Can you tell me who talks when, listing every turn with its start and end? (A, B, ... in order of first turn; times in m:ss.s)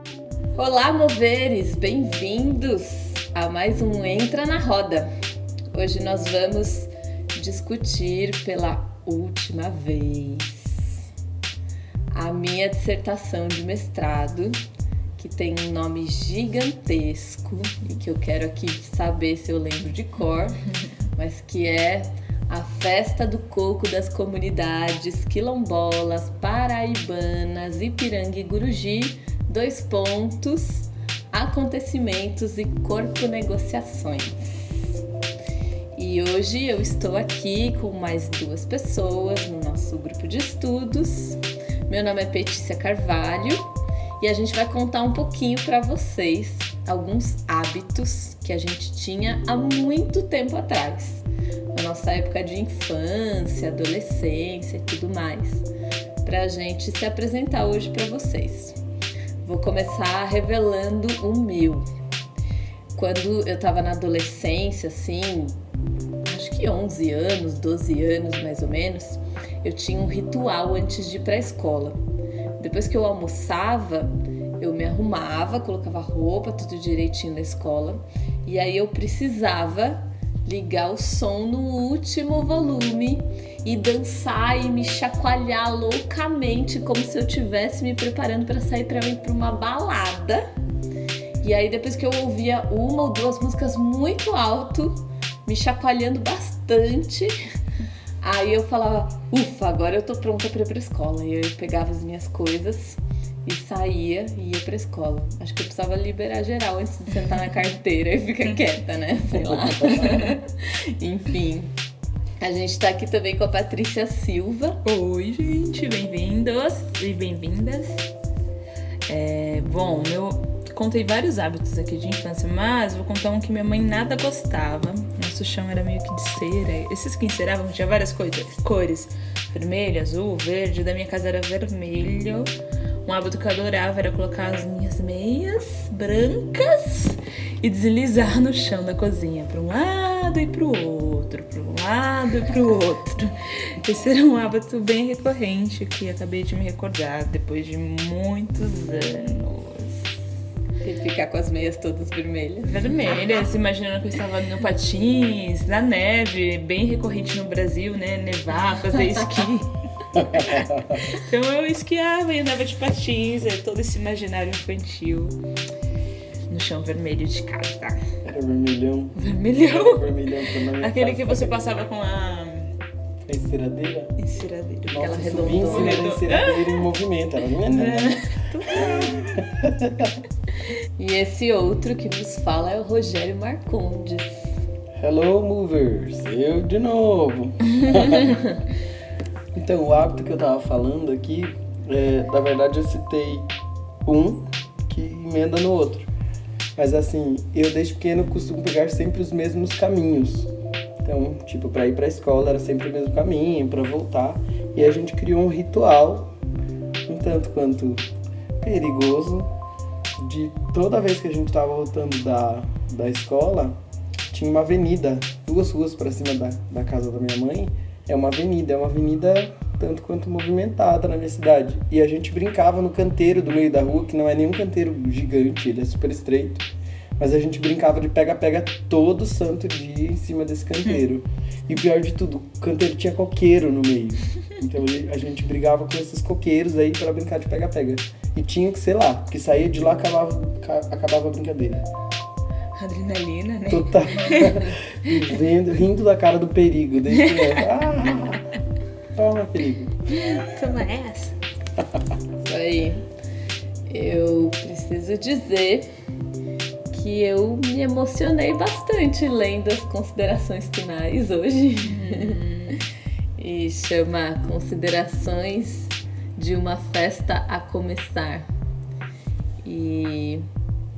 0:00.6-0:05.1 A
0:05.7-0:11.0 A
0:12.1-0:14.6 A
0:15.2-0:20.6 A
0:21.2-0:35.0 A
0:36.0-0:43.7 A
0:44.2-0:55.7 A
0:56.2-0:58.8 A
0:59.4-1:01.9 A
1:03.0-1:05.6 A
1:06.2-1:12.0 A
1:12.6-1:30.5 A
1:31.4-1:37.4 A
1:38.2-1:51.7 A
1:49.6-1:50.0 B
1:52.4-1:54.8 A
1:54.8-1:58.1 C
1:59.1-2:12.5 C
2:13.1-2:30.2 C
2:30.8-2:32.9 A
2:32.6-2:45.4 C
2:40.1-2:41.0 B
2:46.5-2:48.0 C
2:48.2-2:51.6 B
2:49.2-2:52.7 C
2:53.3-2:54.2 B
2:54.2-2:56.9 C
2:54.9-3:00.2 B
2:55.0-2:56.1 A
2:57.7-2:59.5 C
3:01.0-3:04.6 A
3:05.0-3:08.4 B
3:09.5-3:13.5 B
3:14.0-3:16.1 B
3:16.8-3:20.5 B
3:21.0-3:26.3 B
3:27.1-3:28.1 B
3:28.6-3:29.5 B
3:30.2-3:33.8 B
3:34.3-3:46.7 B
3:47.2-4:01.9 B
4:02.8-4:05.2 C
4:03.7-4:08.4 B
4:07.2-4:07.6 C
4:09.1-4:10.0 B
4:10.1-4:11.4 C
4:12.4-4:13.0 A
4:13.9-4:15.9 A
4:16.9-4:22.4 A
4:21.9-4:22.8 C
4:23.4-4:28.5 A
4:29.6-4:30.4 A